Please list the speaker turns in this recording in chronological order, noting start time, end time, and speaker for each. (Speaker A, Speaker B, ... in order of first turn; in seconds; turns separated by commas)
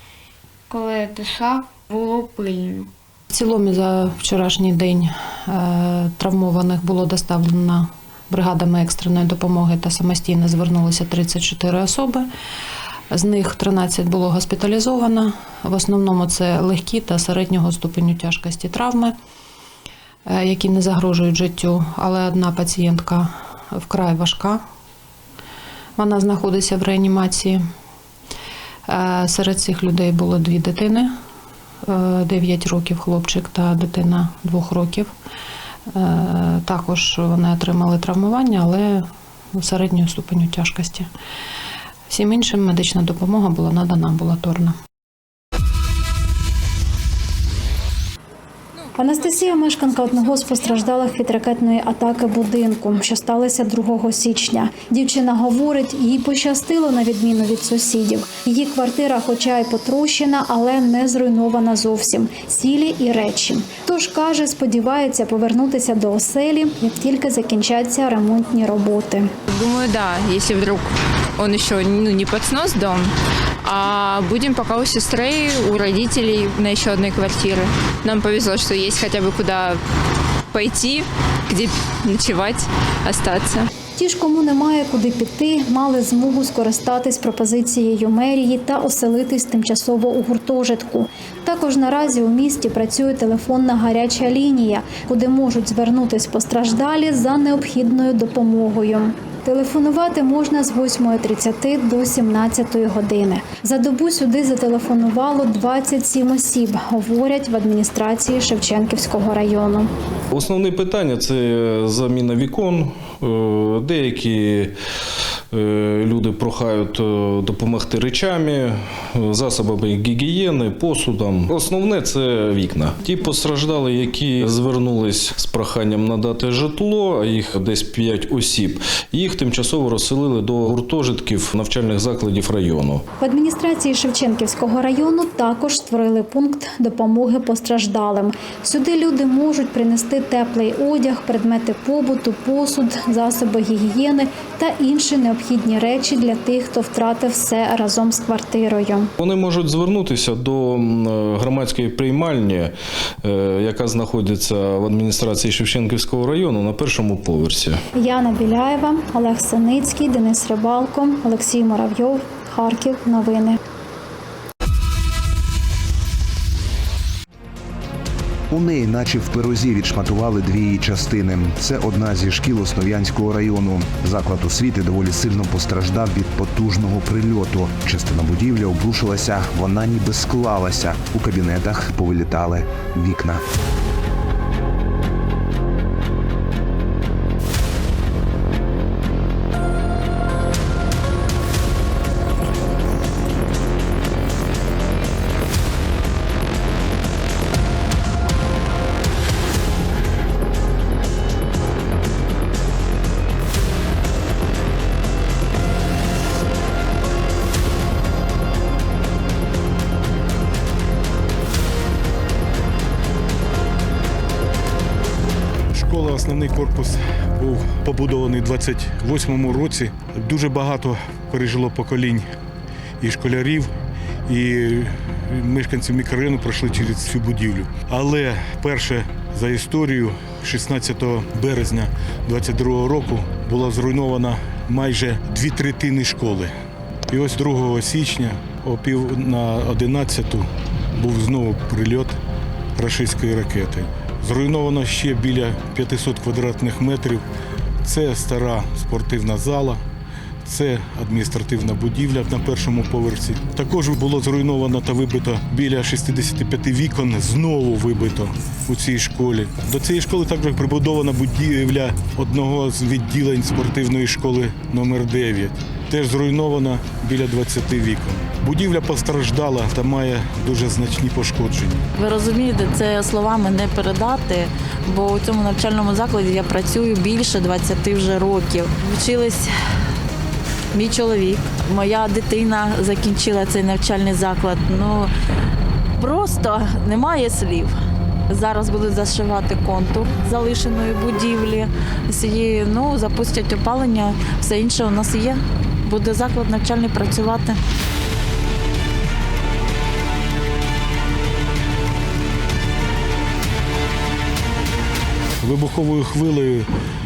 Speaker A: 0.7-2.9, Speaker B: 3.3-12.3, Speaker B: 13.1-19.1, Speaker B: 20.2-24.6, Speaker B: 26.0-27.6, Speaker B: 28.9-31.2, Speaker B: 31.8-35.1, Speaker B: 35.9-41.1, Speaker B: 42.1-44.7, Speaker C: 48.9-69.3, Speaker D: 69.5-73.1, Speaker D: 73.6-79.8, Speaker D: 80.5-83.7, Speaker C: 84.0-109.9, Speaker E: 110.3-114.7, Speaker E: 115.5-133.1, Speaker C: 133.2-149.1, Speaker E: 149.2-157.8, Speaker C: 157.9-163.6, Speaker F: 168.5-183.4, Speaker G: 215.7-222.3, Speaker G: 223.0-223.7, Speaker G: 224.2-236.5, Speaker G: 237.1-242.2, Speaker G: 242.8-247.2, Speaker G: 247.8-249.8, Speaker G: 250.4-271.9, Speaker H: 271.9-279.5, Speaker H: 280.7-285.1, Speaker H: 286.0-287.8, Speaker H: 288.3-297.6, Speaker G: 305.4-306.7